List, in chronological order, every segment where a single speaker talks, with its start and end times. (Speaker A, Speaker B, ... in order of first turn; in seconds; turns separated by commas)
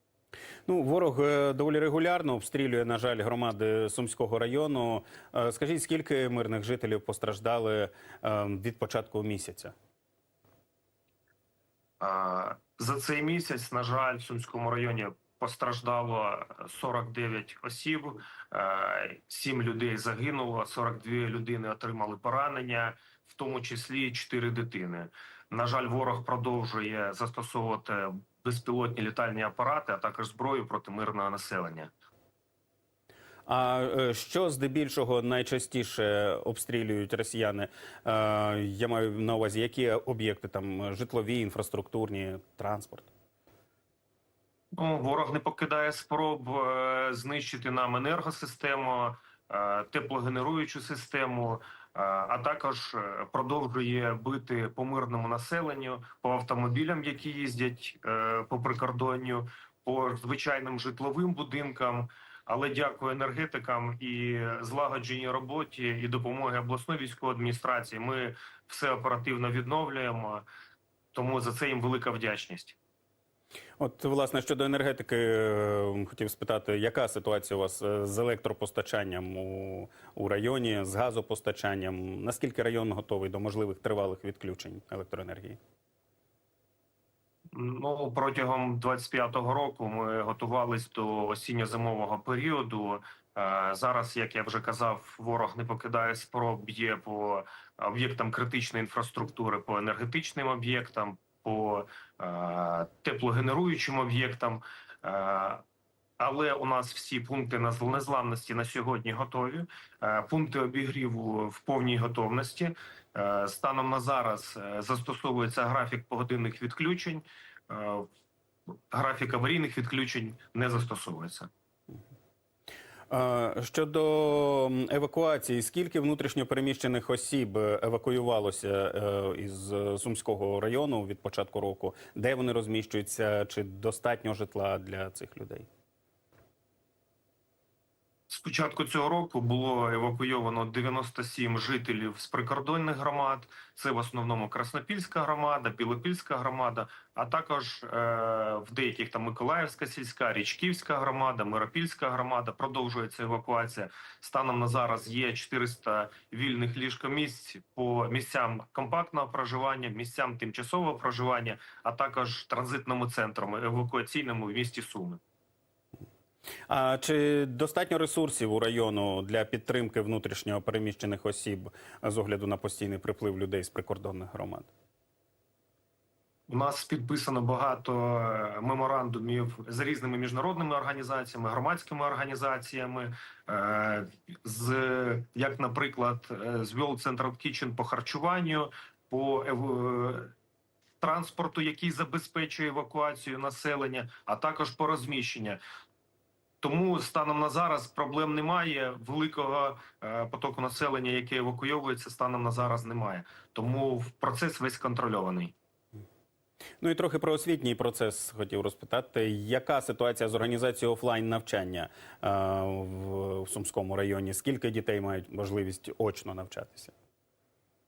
Speaker A: 0.7-9.7, Speaker B: 12.0-31.9, Speaker A: 33.5-43.1, Speaker B: 44.8-70.5, Speaker B: 71.1-72.8, Speaker A: 73.8-85.6, Speaker B: 87.5-105.6, Speaker B: 106.2-118.1, Speaker B: 118.9-121.5, Speaker A: 123.1-135.7, Speaker B: 138.3-165.2, Speaker A: 166.7-174.7, Speaker B: 176.5-190.3, Speaker B: 191.0-195.6, Speaker B: 196.6-205.5, Speaker A: 206.8-216.9